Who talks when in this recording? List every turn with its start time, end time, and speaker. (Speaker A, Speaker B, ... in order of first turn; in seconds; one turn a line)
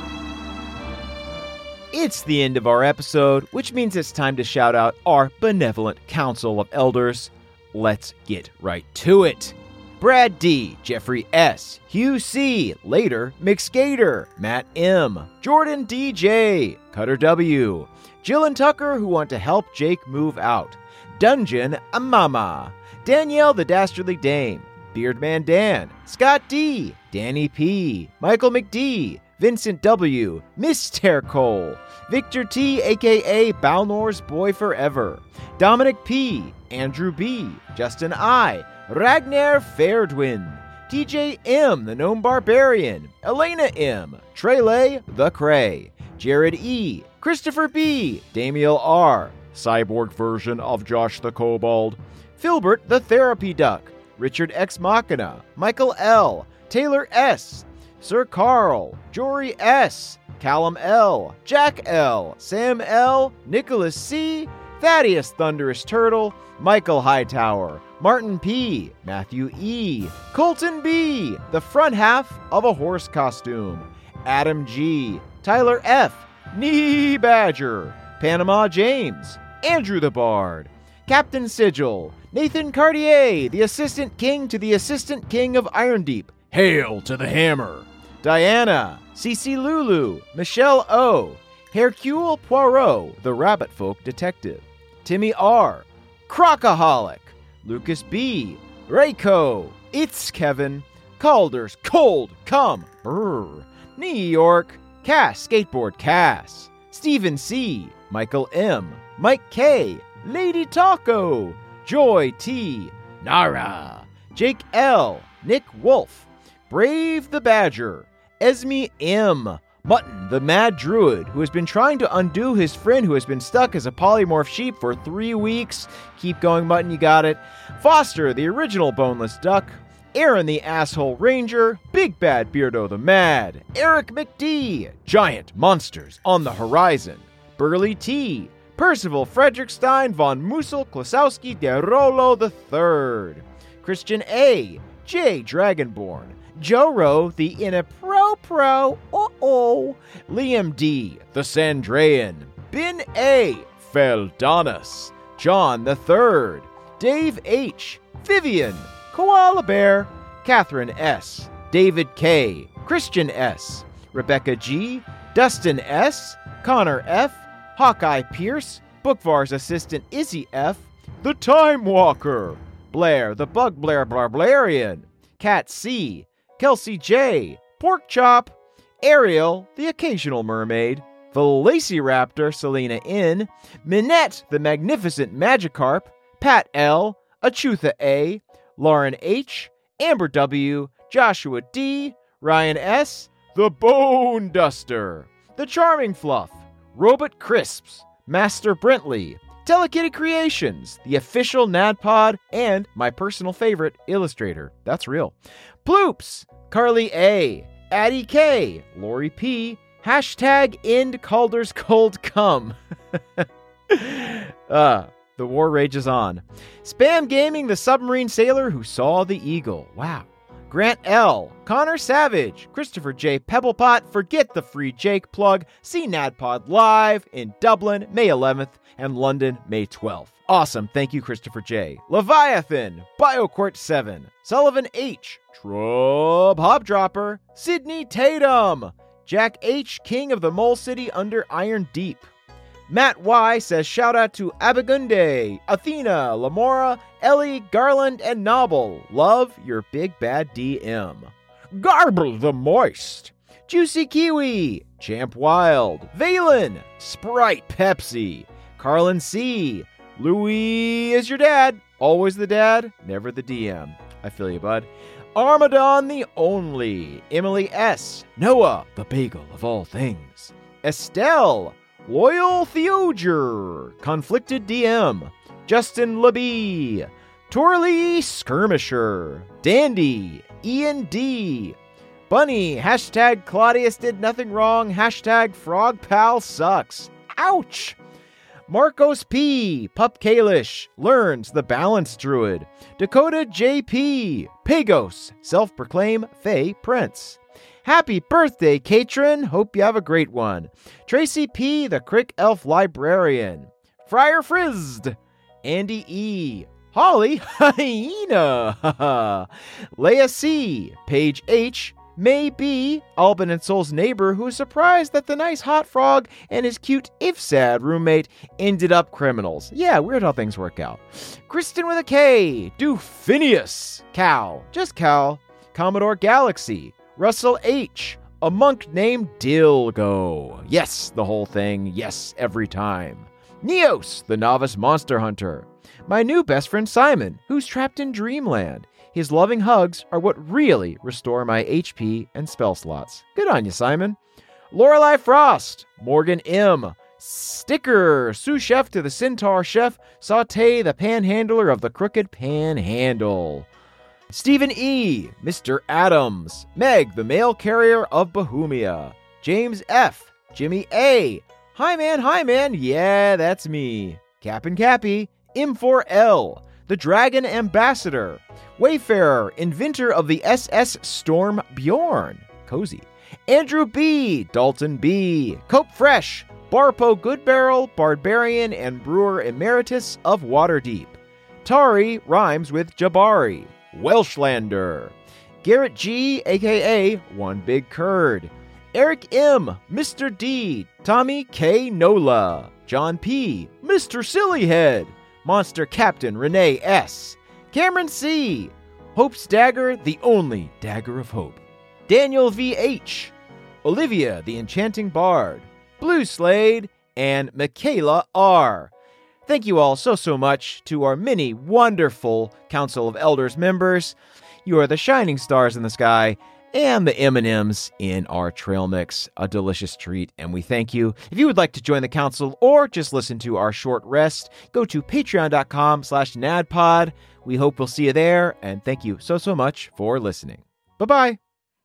Speaker A: 1.9-212.8
Speaker A: 213.4-242.3
Speaker A: 242.9-281.8
Speaker A: 282.3-288.0
Speaker A: 288.7-344.2
Speaker A: 344.7-353.7
Speaker A: 354.3-403.3
Speaker A: 403.8-408.9
Speaker A: 409.5-431.4